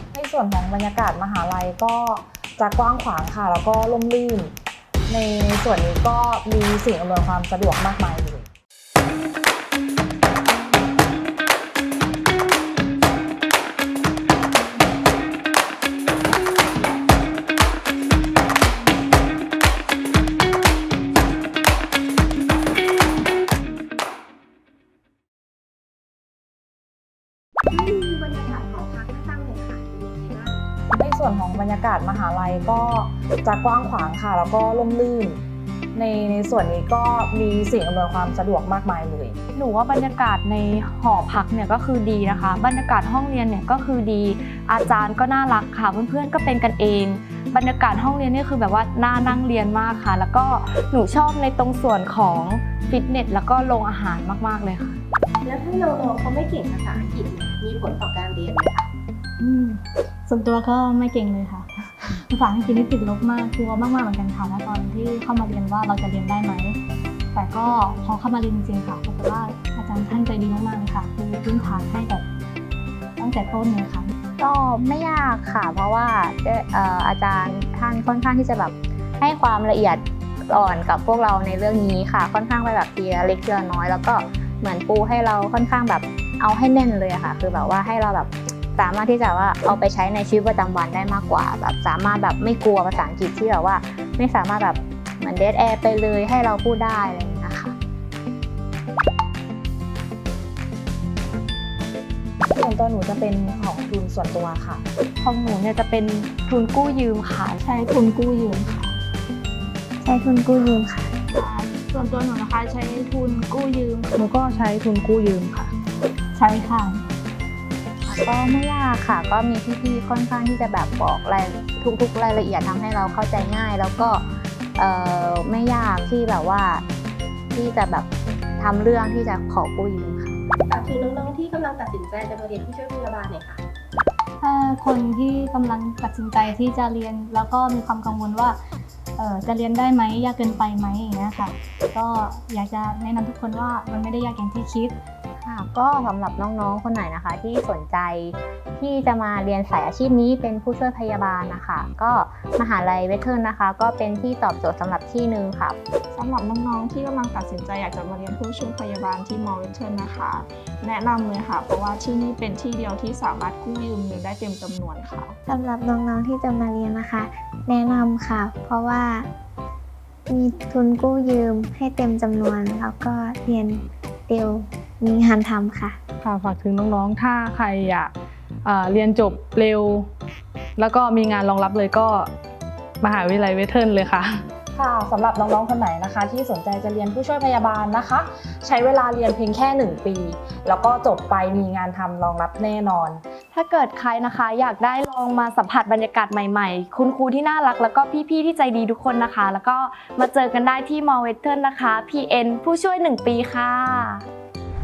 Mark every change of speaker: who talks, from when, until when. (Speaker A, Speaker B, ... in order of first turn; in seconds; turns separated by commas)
Speaker A: 0.1-4.5, Speaker A: 5.1-8.5, Speaker B: 27.7-30.6, Speaker A: 30.9-35.4, Speaker A: 35.9-39.4, Speaker C: 39.6-55.0, Speaker B: 55.4-58.9, Speaker D: 59.4-66.8, Speaker D: 67.3-72.2, Speaker D: 73.2-74.1, Speaker E: 74.4-97.8, Speaker A: 102.5-104.8, Speaker C: 105.2-107.5, Speaker F: 107.6-109.0, Speaker G: 110.0-111.1, Speaker F: 111.3-114.0, Speaker D: 111.9-112.4, Speaker D: 112.9-113.6, Speaker H: 114.1-115.7, Speaker D: 116.3-117.0, Speaker E: 118.1-124.2, Speaker E: 124.8-126.8, Speaker E: 127.5-130.4, Speaker B: 130.7-133.6, Speaker D: 134.4-138.6, Speaker D: 139.2-145.0, Speaker E: 145.4-155.8, Speaker F: 156.1-165.4, Speaker G: 165.5-169.3, Speaker G: 170.3-176.0, Speaker H: 176.2-178.1, Speaker H: 178.6-180.1, Speaker H: 180.8-182.3, Speaker H: 183.0-184.4, Speaker A: 184.8-193.2, Speaker C: 193.5-204.1